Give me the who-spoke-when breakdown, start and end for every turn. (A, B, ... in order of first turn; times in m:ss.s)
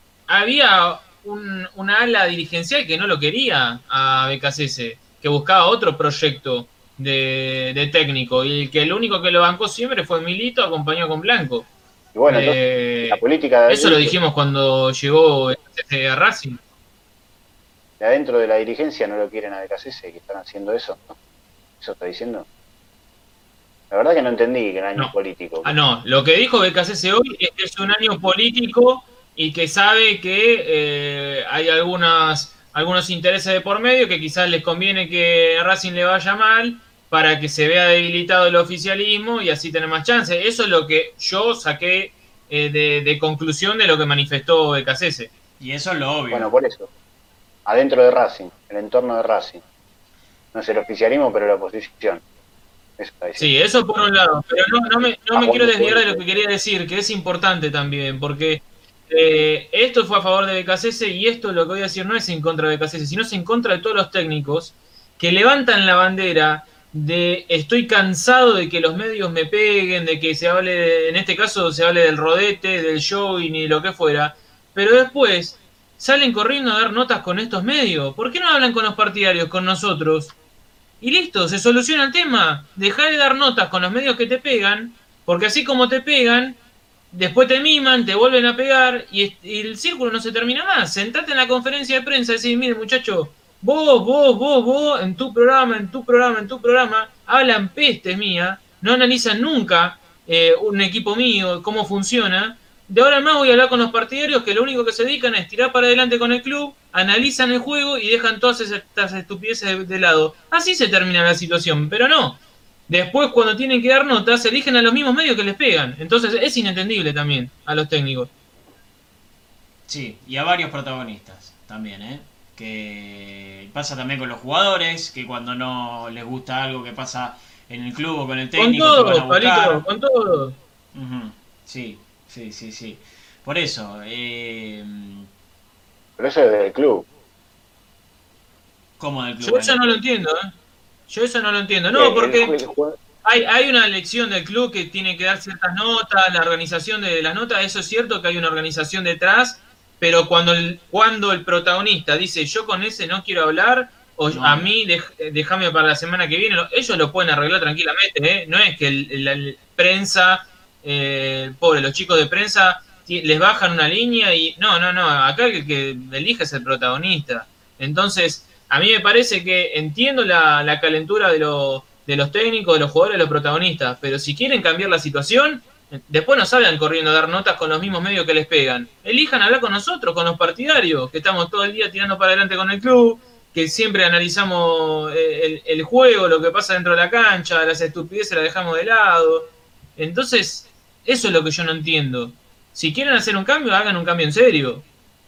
0:00.3-0:11.7 A
0:12.2-0:14.2 B
0:12.3-0:16.6 A
0:18.0-0:21.2 B
0:21.8-0:22.5 B
0:23.9-0:25.8 B
0:25.6-0:45.3 A
0:45.6-0:46.5 C
0:46.3-0:46.9 B
0:47.7-0:49.6 B
0:50.5-0:52.2 B
0:53.0-0:53.5 B
0:53.4-1:20.3 A
0:55.3-0:56.2 B
1:21.0-1:26.6 A
1:27.1-1:58.3 A
1:59.9-2:09.8 C
2:08.6-2:10.6 A
2:10.9-2:15.3 C
2:16.2-2:17.1 B
2:19.0-2:20.0 C
2:19.4-2:20.5 A
2:21.1-2:22.6 A
2:22.0-2:23.0 B
2:23.2-3:14.8 A
2:34.3-2:34.7 C